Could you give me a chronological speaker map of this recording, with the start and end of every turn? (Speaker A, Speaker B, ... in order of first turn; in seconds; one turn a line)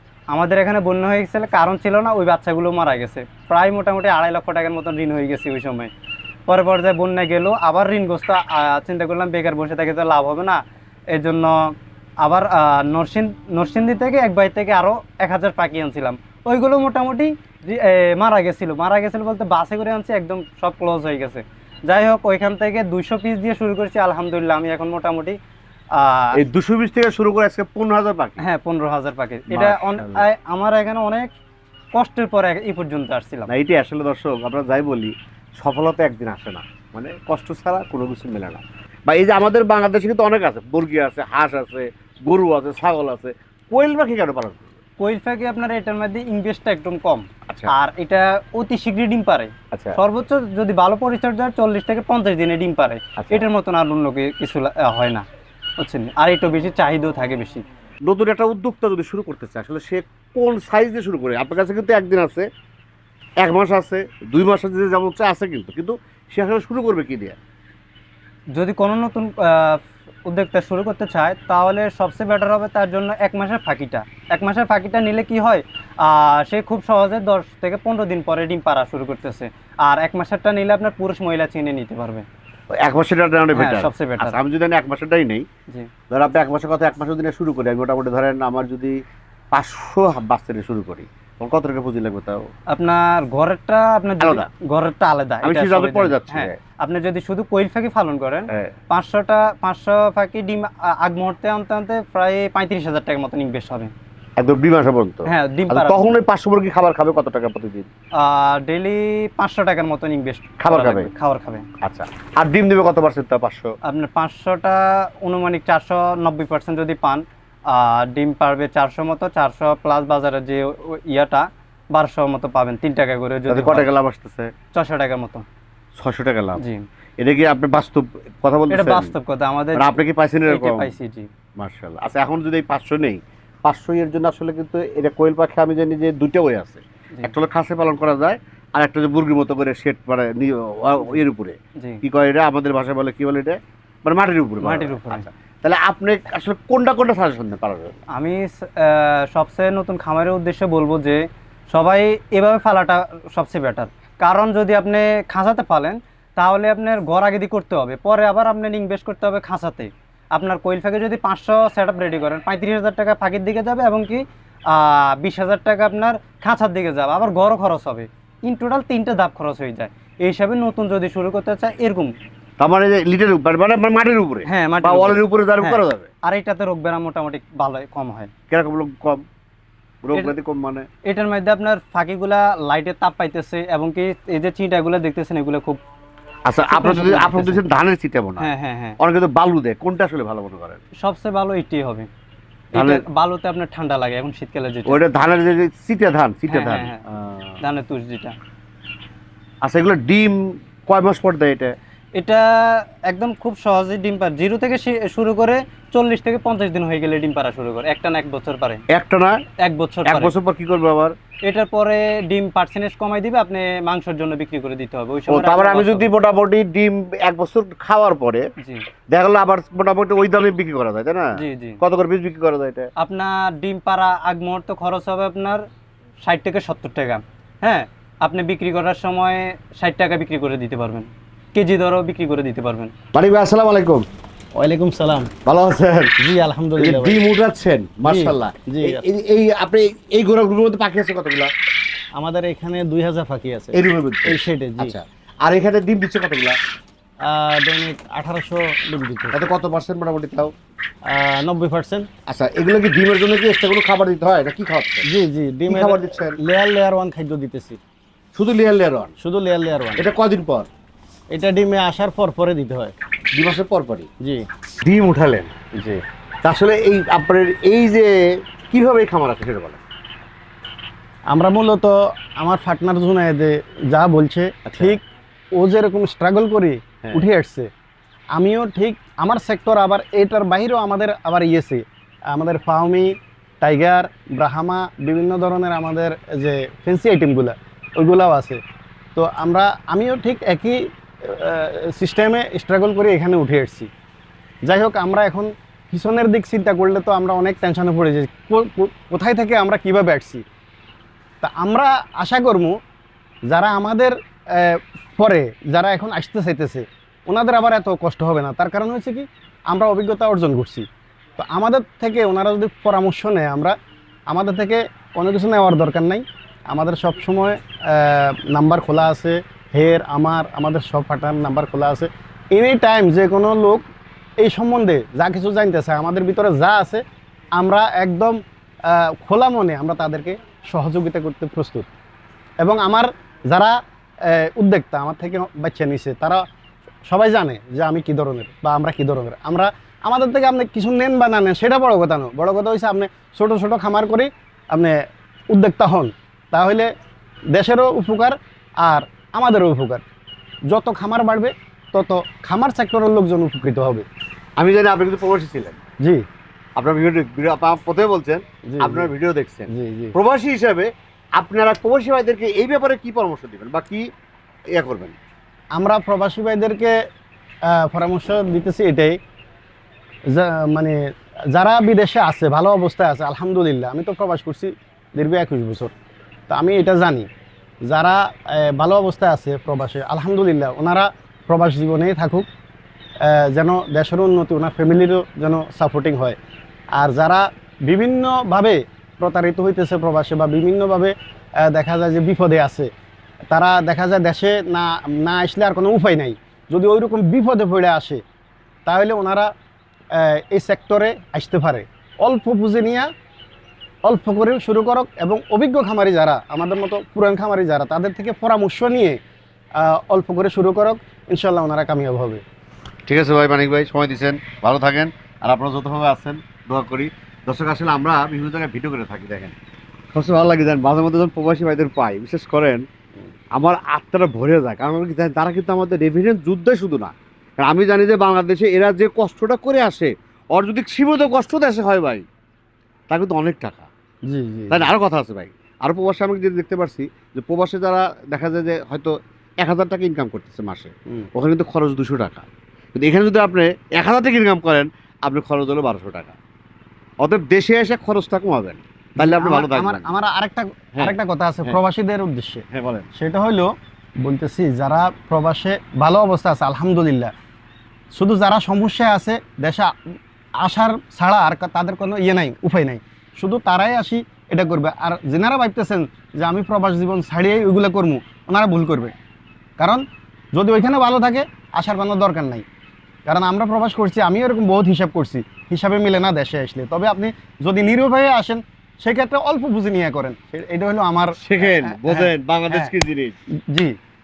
Speaker A: 0.3-5.9
Speaker A: 6.5-10.6
Speaker A: 11.1-25.4
Speaker A: 26.0-26.4
Speaker B: 26.3-28.4
Speaker A: 28.4-31.3
Speaker B: 29.5-30.2
Speaker A: 31.9-33.5
Speaker B: 33.5-44.7
Speaker A: 45.0-55.2
Speaker B: 49.7-50.0
Speaker B: 53.2-53.5
Speaker A: 55.8-57.6
Speaker B: 58.0-62.5
Speaker B: 63.4-67.4
Speaker A: 68.5-82.3
Speaker B: 82.7-85.5
Speaker A: 83.5-84.4
Speaker B: 86.1-92.5
Speaker A: 92.7-103.9
Speaker B: 94.2-94.5
Speaker B: 95.4-96.6
Speaker B: 104.4-107.9
Speaker A: 105.3-106.1
Speaker A: 108.2-111.7
Speaker B: 110.6-111.1
Speaker B: 111.8-113.8
Speaker A: 113.8-123.9
Speaker B: 123.5-124.5
Speaker A: 124.7-125.5
Speaker B: 126.0-126.6
Speaker A: 126.6-126.8
Speaker B: 127.2-129.1
Speaker A: 128.7-131.3
Speaker B: 129.8-130.9
Speaker B: 131.6-147.9
Speaker A: 141.8-142.0
Speaker A: 144.6-145.3
Speaker A: 148.2-172.1
Speaker B: 172.6-176.1
Speaker A: 174.5-178.3
Speaker B: 178.5-179.2
Speaker B: 180.0-180.9
Speaker A: 181.1-185.8
Speaker B: 186.5-190.8
Speaker A: 186.7-187.6
Speaker A: 188.4-189.0
Speaker A: 191.0-192.1
Speaker A: 192.7-195.0
Speaker B: 192.8-193.1
Speaker B: 194.9-197.6
Speaker A: 196.5-197.0
Speaker A: 197.6-198.4
Speaker B: 199.6-201.8
Speaker A: 202.2-208.8
Speaker B: 208.9-209.4
Speaker A: 209.6-210.3
Speaker B: 210.1-211.2
Speaker A: 211.5-216.1
Speaker B: 215.3-218.5
Speaker A: 218.6-218.8
Speaker B: 219.1-222.9
Speaker A: 221.4-221.8
Speaker A: 223.0-225.6
Speaker A: 226.2-232.9
Speaker B: 233.1-234.1
Speaker C: 234.6-235.3
Speaker B: 235.5-236.2
Speaker C: 236.2-237.2
Speaker B: 236.8-241.5
Speaker C: 238.1-239.0
Speaker C: 242.2-244.9
Speaker B: 243.7-246.6
Speaker C: 247.2-249.4
Speaker B: 249.3-250.5
Speaker C: 251.1-252.1
Speaker B: 252.3-255.1
Speaker C: 255.1-257.8
Speaker B: 255.7-256.4
Speaker B: 258.4-259.1
Speaker C: 259.2-260.1
Speaker B: 260.0-260.7
Speaker C: 261.3-263.0
Speaker B: 263.3-264.1
Speaker B: 264.8-265.6
Speaker C: 265.8-266.0
Speaker B: 266.4-269.8
Speaker C: 271.3-275.0
Speaker B: 274.6-275.0
Speaker C: 275.6-277.7
Speaker C: 278.3-288.6
Speaker C: 289.1-293.9
Speaker C: 294.7-300.4
Speaker C: 301.4-302.8
Speaker C: 303.5-310.9
Speaker C: 311.4-313.8
Speaker C: 314.3-323.8
Speaker C: 324.4-327.0
Speaker C: 327.6-331.9
Speaker C: 332.6-336.4
Speaker C: 337.1-345.0
Speaker C: 345.5-346.9
Speaker C: 347.5-350.0
Speaker C: 350.7-354.1
Speaker B: 354.6-355.8
Speaker B: 356.8-364.1
Speaker C: 358.7-359.1
Speaker C: 359.7-360.1
Speaker B: 364.7-365.1
Speaker C: 365.8-366.9
Speaker C: 367.7-369.2
Speaker C: 370.3-371.0
Speaker C: 371.5-375.9
Speaker C: 376.5-377.3
Speaker C: 377.9-382.5
Speaker C: 383.2-386.4
Speaker C: 386.9-392.9
Speaker C: 393.5-398.2
Speaker C: 398.9-399.5
Speaker C: 400.1-403.1
Speaker C: 404.1-409.2
Speaker C: 409.8-412.4
Speaker B: 413.1-419.6
Speaker B: 420.1-422.9
Speaker B: 423.6-432.2
Speaker B: 433.1-433.9
Speaker C: 434.3-434.9
Speaker B: 434.7-446.4
Speaker B: 447.2-450.1
Speaker C: 449.2-457.3
Speaker B: 450.9-451.8
Speaker B: 452.7-453.1
Speaker C: 458.1-469.1
Speaker C: 469.8-472.6
Speaker C: 473.3-482.9
Speaker B: 481.4-483.4
Speaker C: 483.7-483.9